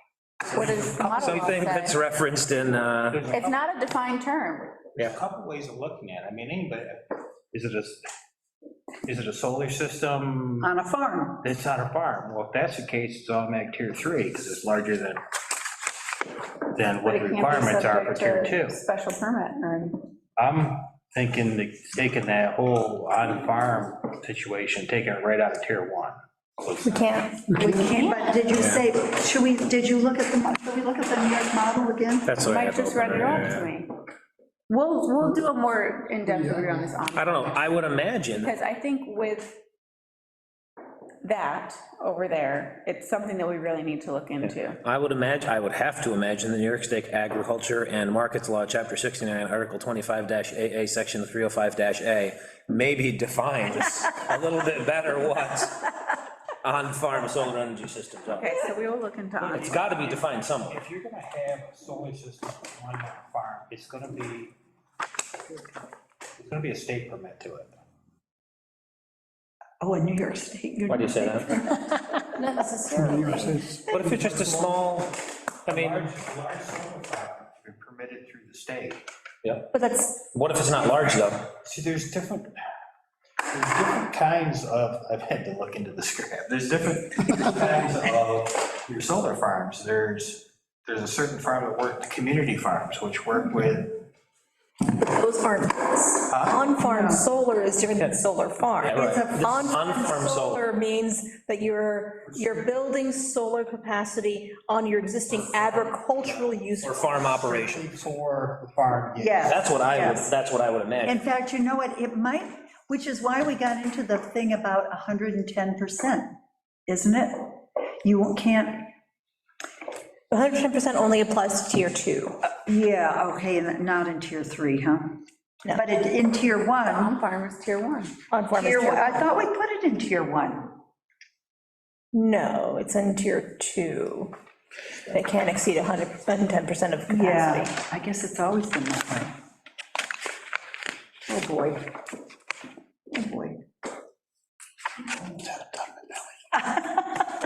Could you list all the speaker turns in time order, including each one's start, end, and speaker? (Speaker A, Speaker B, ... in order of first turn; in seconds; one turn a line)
Speaker A: 0.5-1.6
Speaker B: 0.5-2.0
Speaker C: 1.2-3.2
Speaker A: 2.6-3.6
Speaker B: 3.3-4.8
Speaker A: 5.0-8.0
Speaker A: 9.1-10.7
Speaker D: 10.6-11.4
Speaker A: 11.4-15.2
Speaker A: 16.7-18.8
Speaker B: 17.0-20.0
Speaker A: 20.4-27.1
Speaker E: 26.9-27.4
Speaker D: 27.5-32.3
Speaker C: 28.5-28.8
Speaker C: 32.2-33.7
Speaker B: 32.4-33.9
Speaker B: 34.7-37.8
Speaker C: 37.1-38.5
Speaker B: 38.3-39.6
Speaker B: 41.2-44.8
Speaker C: 44.4-55.9
Speaker C: 56.6-58.6
Speaker B: 58.3-59.9
Speaker A: 59.4-64.5
Speaker C: 59.5-60.8
Speaker A: 66.4-67.8
Speaker D: 69.8-72.2
Speaker C: 70.9-71.5
Speaker E: 72.3-73.8
Speaker C: 73.8-76.1
Speaker A: 74.1-74.8
Speaker A: 75.7-79.0
Speaker C: 79.4-81.5
Speaker D: 79.7-80.2
Speaker A: 81.6-82.5
Speaker A: 83.5-94.0
Speaker E: 94.9-107.2
Speaker A: 96.3-96.8
Speaker D: 96.8-97.2
Speaker C: 98.0-98.2
Speaker C: 98.8-100.6
Speaker D: 99.0-99.9
Speaker C: 106.8-107.9
Speaker A: 107.3-109.5
Speaker D: 109.2-110.3
Speaker C: 109.5-111.2
Speaker D: 111.0-116.3
Speaker D: 116.9-118.9
Speaker E: 120.3-122.4
Speaker D: 122.5-127.2
Speaker B: 126.8-128.1
Speaker E: 128.3-129.2
Speaker D: 128.5-130.8
Speaker E: 132.1-134.3
Speaker E: 135.1-137.7
Speaker D: 137.1-139.3
Speaker D: 141.3-141.9
Speaker D: 143.1-143.6
Speaker A: 145.3-146.2
Speaker D: 146.5-147.2